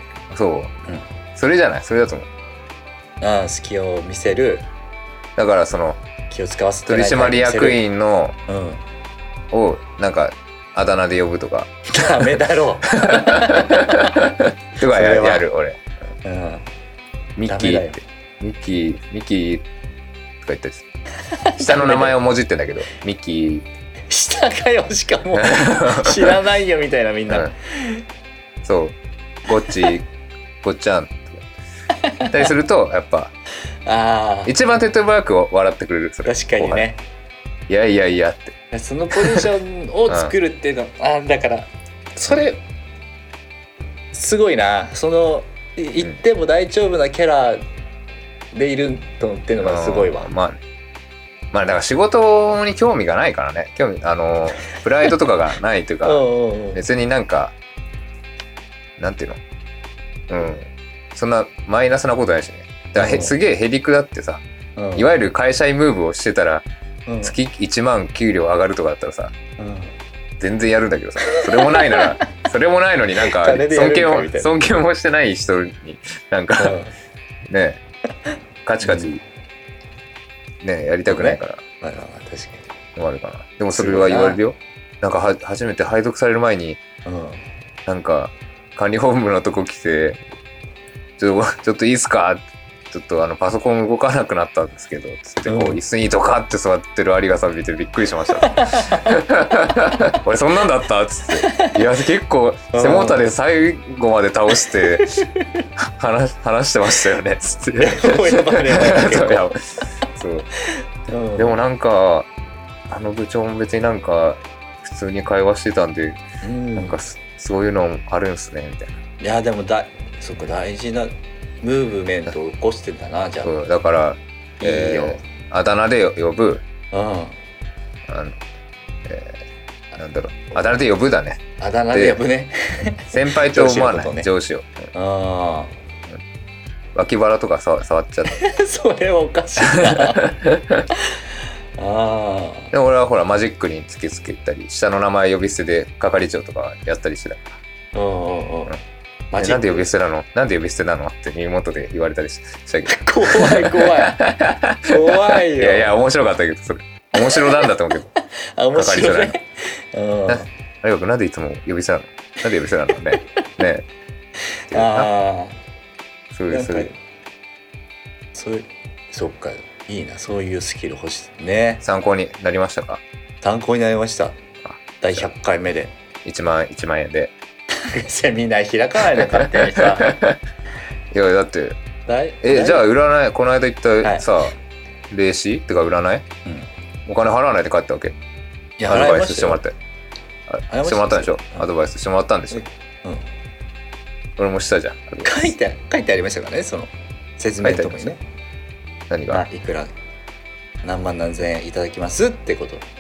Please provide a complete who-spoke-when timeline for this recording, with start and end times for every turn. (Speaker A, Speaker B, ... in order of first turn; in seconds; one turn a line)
Speaker A: 0.3-0.8
Speaker A: 1.4-2.3
Speaker B: 3.2-4.7
Speaker A: 5.4-6.0
Speaker B: 6.3-7.8
Speaker A: 6.9-8.4
Speaker B: 8.5-8.8
Speaker A: 9.5-11.7
Speaker B: 11.9-14.2
Speaker A: 12.9-15.8
Speaker B: 14.8-15.5
Speaker B: 16.2-16.6
Speaker A: 17.4-19.7
Speaker B: 17.5-18.0
Speaker A: 20.4-20.8
Speaker B: 21.3-22.2
Speaker A: 21.6-23.6
Speaker B: 24.1-28.0
Speaker A: 25.3-26.4
Speaker A: 27.3-27.5
Speaker A: 28.6-30.1
Speaker A: 30.6-31.5
Speaker B: 31.9-32.5
Speaker A: 32.3-33.3
Speaker B: 33.9-34.5
Speaker A: 34.5-36.9
Speaker B: 36.2-37.0
Speaker A: 37.7-38.5
Speaker B: 38.7-42.6
Speaker A: 39.2-39.5
Speaker A: 40.1-40.3
Speaker B: 44.1-47.6
Speaker B: 48.5-50.4
Speaker A: 49.6-50.6
Speaker A: 51.5-57.5
Speaker B: 56.0-56.8
Speaker A: 59.0-59.4
Speaker A: 60.3-64.4
Speaker B: 63.0-63.4
Speaker B: 64.8-65.1
Speaker A: 65.0-66.7
Speaker B: 67.1-67.4
Speaker A: 67.2-69.3
Speaker B: 69.6-69.9
Speaker A: 70.4-76.8
Speaker B: 71.2-72.2
Speaker B: 73.2-74.5
Speaker B: 76.6-76.9
Speaker A: 77.5-77.8
Speaker A: 78.7-79.2
Speaker A: 80.6-81.6
Speaker B: 81.1-82.7
Speaker A: 83.0-86.8
Speaker B: 83.7-84.4
Speaker B: 87.1-87.4
Speaker A: 87.9-90.2
Speaker A: 91.2-105.3
Speaker B: 95.5-95.8
Speaker B: 98.4-99.2
Speaker B: 101.3-101.8
Speaker B: 102.7-103.2
Speaker B: 104.6-105.7
Speaker A: 105.8-110.5
Speaker B: 107.8-109.6
Speaker B: 110.6-111.5
Speaker A: 111.4-112.3
Speaker A: 112.9-116.2
Speaker B: 116.4-117.0
Speaker A: 116.8-119.0
Speaker B: 119.2-123.5
Speaker A: 123.4-126.6
Speaker B: 124.6-125.2
Speaker B: 126.9-127.4
Speaker A: 128.1-128.4
Speaker A: 129.1-129.4
Speaker A: 129.9-131.4
Speaker B: 131.6-134.3
Speaker A: 131.9-132.2
Speaker A: 133.1-134.9
Speaker B: 134.9-135.7
Speaker A: 136.9-138.3
Speaker B: 138.3-140.3
Speaker A: 139.6-140.9
Speaker B: 141.0-141.2
Speaker B: 141.8-142.7
Speaker A: 142.7-147.6
Speaker B: 147.9-148.8
Speaker B: 149.3-149.9
Speaker A: 149.4-158.1
Speaker B: 152.9-154.2
Speaker B: 154.9-156.1
Speaker B: 157.2-160.5
Speaker A: 158.7-159.3
Speaker A: 160.3-163.8
Speaker B: 164.7-165.6
Speaker A: 164.7-165.1
Speaker A: 166.3-166.9
Speaker B: 166.5-166.9
Speaker B: 168.3-171.8
Speaker A: 171.8-173.0
Speaker B: 173.4-174.4
Speaker B: 175.0-175.9
Speaker A: 176.2-177.3
Speaker B: 177.8-180.2
Speaker A: 179.2-180.4
Speaker A: 181.1-181.8
Speaker B: 182.1-182.9
Speaker A: 182.4-184.6
Speaker B: 184.0-184.3
Speaker A: 185.1-186.3
Speaker A: 187.1-188.2
Speaker B: 188.8-189.6
Speaker A: 188.9-189.7
Speaker A: 190.5-192.6
Speaker B: 190.7-191.7
Speaker B: 192.5-193.2
Speaker A: 194.4-195.5
Speaker B: 195.2-198.2
Speaker A: 197.6-198.1
Speaker A: 199.1-199.4
Speaker B: 199.3-199.9
Speaker B: 200.8-202.8